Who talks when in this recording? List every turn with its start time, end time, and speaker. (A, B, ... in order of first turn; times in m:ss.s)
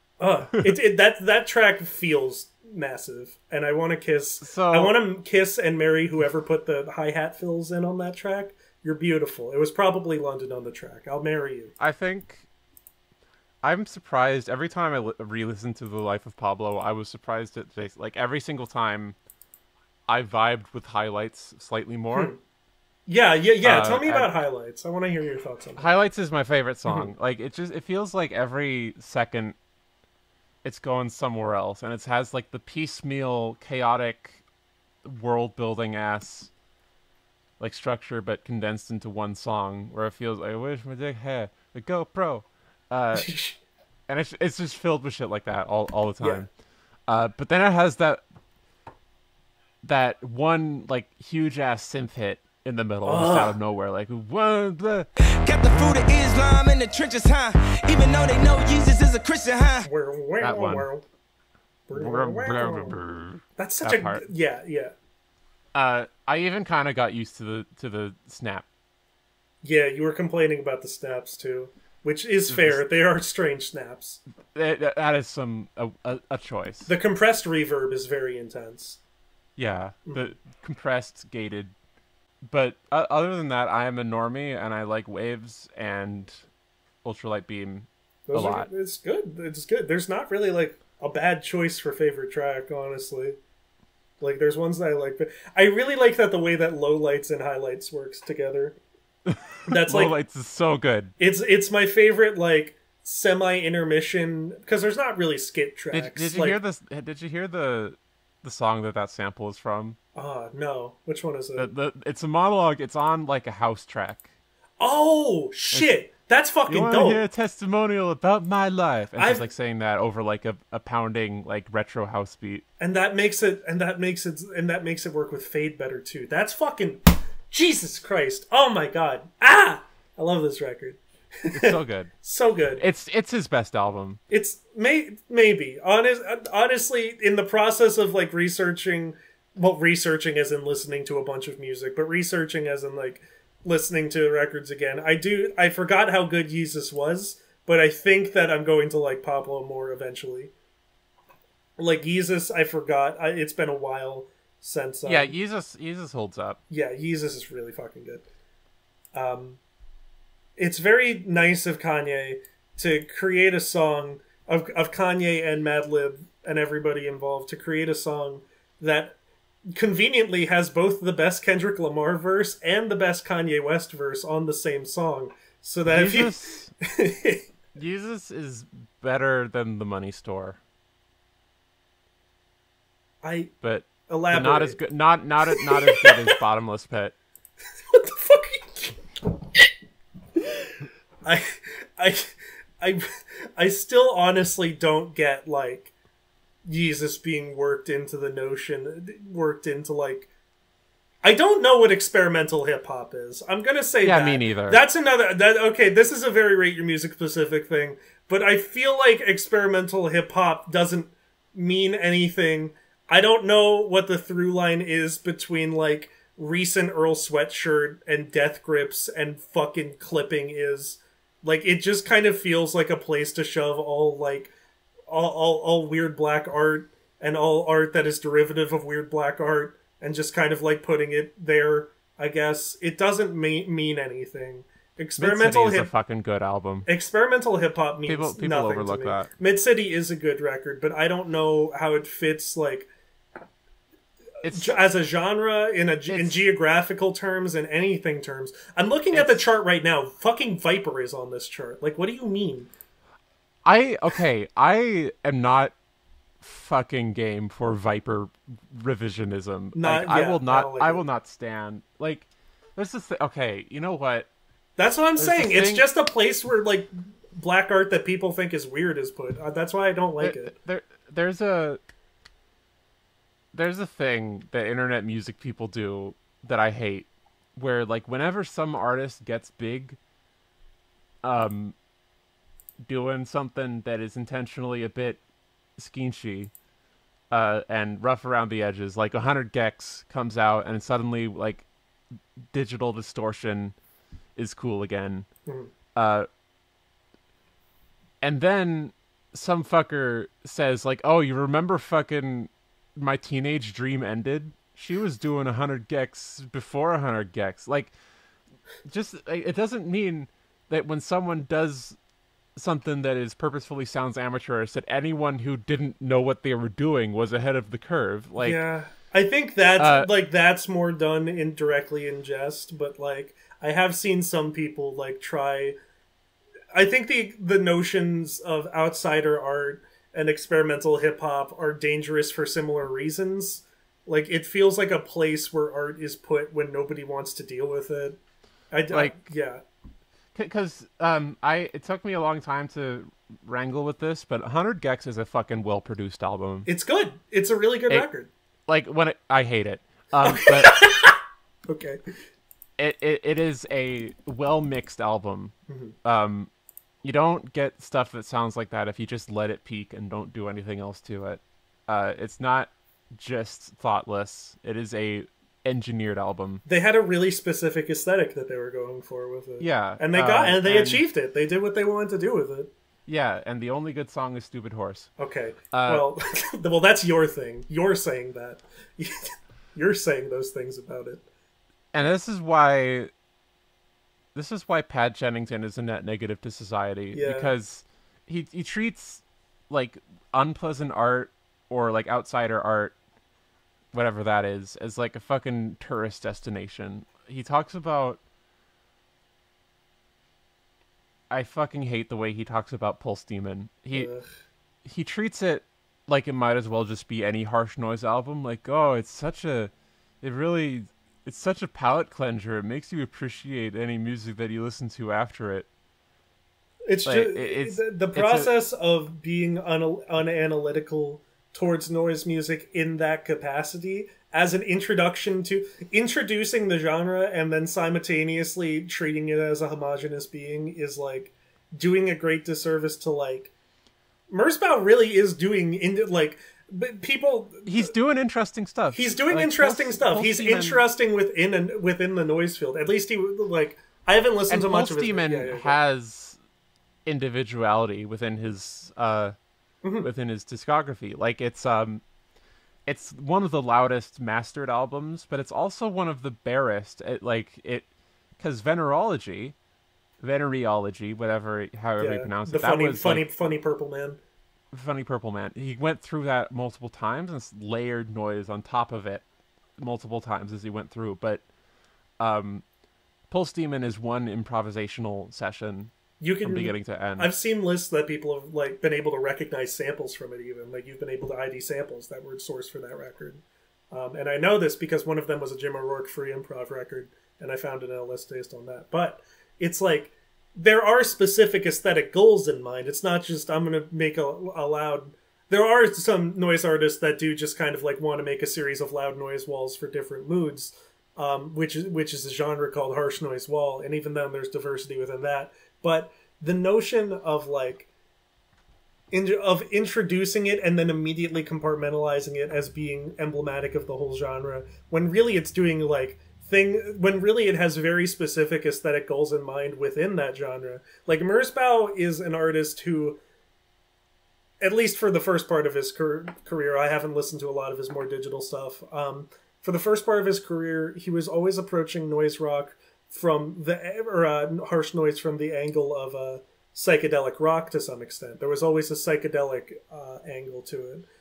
0:00.2-0:11.7 A
0:04.4-0:04.9 B
0:11.8-0:12.5 B
0:13.6-0:19.2 B
0:20.1-0:22.3 B
0:22.1-0:22.4 A
0:23.1-0:25.9 A
0:23.6-0:24.3 B
0:25.8-0:29.6 B
0:26.8-0:27.1 A
0:30.6-0:34.4 B
0:35.0-0:36.5 B
0:37.6-0:43.3 B
0:43.1-0:43.6 A
0:44.1-0:46.5 B
0:46.2-0:46.4 A
0:47.1-0:48.2 B
0:49.8-0:55.1 B
0:53.0-0:53.6 A
0:55.4-0:59.9 C
0:59.8-1:01.0 A
1:00.4-1:00.9 B
1:01.9-1:03.0 A
1:01.9-1:04.2 B
1:03.6-1:04.9 A
1:05.7-1:08.6 B
1:09.6-1:14.2 A
1:12.5-1:12.8 B
1:14.5-1:16.9 B
1:16.9-1:19.0 A
1:19.6-1:21.7 B
1:20.0-1:20.3 A
1:22.4-1:26.4 B
1:27.0-1:28.7 B
1:28.3-1:33.4 A
1:34.2-1:38.8 A
1:39.2-1:41.1 B
1:39.6-1:40.1 A
1:41.2-1:46.6 A
1:45.9-1:50.0 B
1:50.1-1:51.7 A
1:51.6-1:54.3 B
1:54.8-1:57.2 A
1:55.7-1:56.0 B
1:56.7-2:02.6 B
1:59.2-1:59.5 A
2:02.8-2:12.8 A
2:11.5-2:12.1 B
2:12.8-2:14.2 B
2:14.3-2:30.5 A
2:31.8-2:35.3 A
2:35.0-2:36.6 B
2:36.7-2:38.2 A
2:39.1-2:39.6 A
2:40.6-2:49.2 A
2:49.7-2:57.4 A
2:55.9-2:56.7 B
2:57.8-3:00.6 B
3:03.2-3:03.5 A
3:03.6-3:07.1 B
3:04.1-3:04.8 A
3:05.5-3:06.2 A
3:07.9-3:09.0 A
3:11.2-3:15.9 A
3:16.6-3:20.3 A
3:21.2-3:44.5 A
3:24.0-3:24.8 B
3:45.1-3:55.9 A
3:55.2-3:56.9 B
3:56.8-4:02.9 A
3:58.0-3:59.3 B
4:04.4-4:04.7 B
4:04.5-4:12.7 A
4:06.1-4:06.4 B
4:09.1-4:09.4 B
4:13.6-4:15.7 B
4:16.4-4:24.3 B
4:19.7-4:21.0 A
4:24.8-4:30.5 A
4:25.2-4:25.9 B
4:30.2-4:31.8 B
4:33.5-4:40.0 B
4:41.2-4:41.8 B
4:42.8-4:45.2 B
4:45.8-4:46.5 B
4:47.3-4:51.6 B
4:52.4-4:53.7 B
4:54.4-4:55.3 B
4:55.4-4:55.7 A
4:55.9-4:56.3 B
4:58.2-5:07.9 B
5:08.8-5:12.0 B
5:12.6-5:18.6 B
5:18.4-5:25.8 A
5:19.8-5:20.1 B
5:26.7-5:38.2 A
5:38.7-5:39.6 A
5:38.9-5:39.3 B
5:40.3-5:46.7 B
5:46.6-5:48.3 A
5:48.7-5:50.8 B
5:50.2-5:51.1 A
5:51.7-5:52.0 A
5:52.8-5:56.5 B
5:55.7-5:55.9 A
5:57.0-6:06.6 B
6:06.6-6:12.7 A
6:09.6-6:11.0 B
6:13.1-6:15.1 B
6:15.2-6:21.2 A
6:15.7-6:16.1 B
6:21.9-6:23.1 B
6:24.3-6:33.0 B
6:27.1-6:27.5 A
6:33.9-6:38.2 B
6:41.3-6:44.1 B
6:43.9-6:44.3 A
6:44.8-6:55.7 B
6:56.9-7:13.5 A
6:57.0-6:58.5 B
7:14.3-7:17.9 A
7:17.6-7:20.8 B
7:18.9-7:25.8 A
7:24.5-7:26.4 B
7:27.0-7:29.4 B
7:29.8-7:30.1 A
7:30.0-7:32.0 B
7:32.8-7:37.9 B
7:38.4-7:39.6 B
7:40.2-7:43.2 B
7:42.0-7:44.2 A
7:44.7-7:49.2 B
7:49.8-7:51.4 B
7:52.2-7:52.6 B
7:53.3-7:57.3 B
7:56.2-8:27.9 A
8:29.1-8:43.2 A
8:44.6-9:01.1 A